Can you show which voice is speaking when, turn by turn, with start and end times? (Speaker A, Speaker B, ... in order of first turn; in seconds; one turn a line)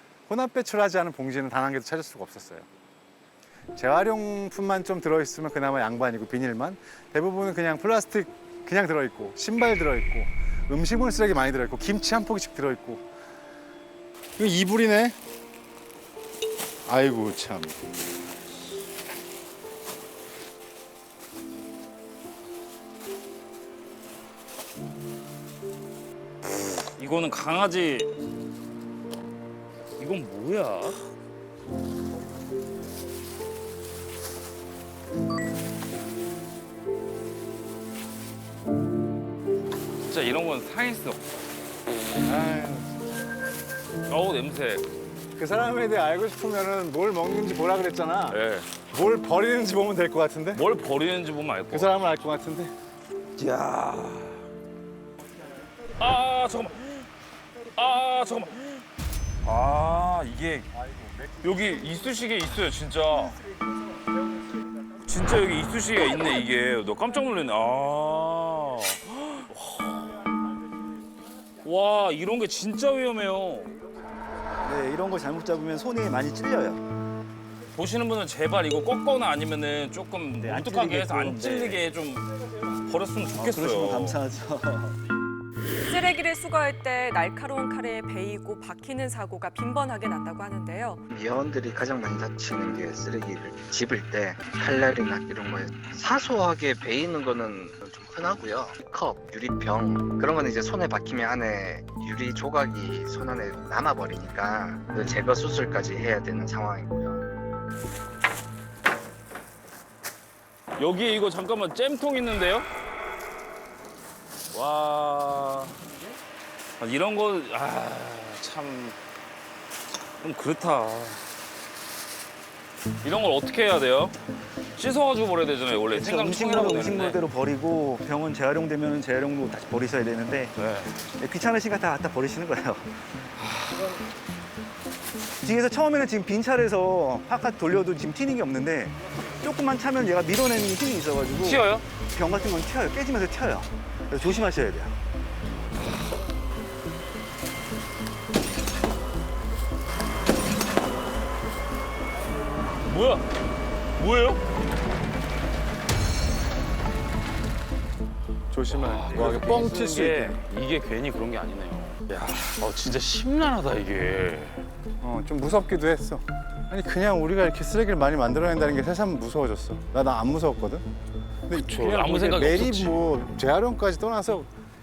Speaker A: 0.3-2.7
Speaker A: 3.8-13.0
Speaker A: 14.4-15.2
Speaker A: 16.9-17.8
Speaker B: 26.4-28.1
Speaker B: 30.0-31.1
Speaker B: 40.0-41.2
Speaker A: 42.2-42.9
Speaker B: 44.1-44.9
Speaker A: 45.4-50.6
Speaker B: 48.3-48.7
Speaker B: 50.5-52.0
Speaker A: 51.7-52.7
Speaker B: 53.4-54.5
Speaker B: 56.0-57.1
Speaker B: 57.8-58.8
Speaker B: 59.4-60.7
Speaker B: 61.4-63.4
Speaker B: 65.0-70.2
Speaker B: 71.6-73.8
Speaker C: 74.6-76.8
Speaker B: 77.8-82.3
Speaker C: 80.4-81.8
Speaker B: 82.8-84.2
Speaker C: 83.3-84.9
Speaker D: 85.8-91.0
Speaker E: 91.1-107.2
Speaker B: 110.8-112.7
Speaker B: 114.5-115.9
Speaker B: 116.8-119.0
Speaker B: 120.2-121.3
Speaker B: 123.0-124.2
Speaker B: 124.8-127.2
Speaker C: 125.8-130.6
Speaker B: 130.6-131.0
Speaker C: 131.2-132.9
Speaker B: 133.4-133.9
Speaker C: 135.4-145.0
Speaker B: 141.4-141.8
Speaker B: 152.9-153.2
Speaker B: 154.0-154.4
Speaker A: 158.5-160.4
Speaker B: 158.7-164.7
Speaker A: 165.0-170.8
Speaker A: 171.5-174.5
Speaker B: 171.5-173.1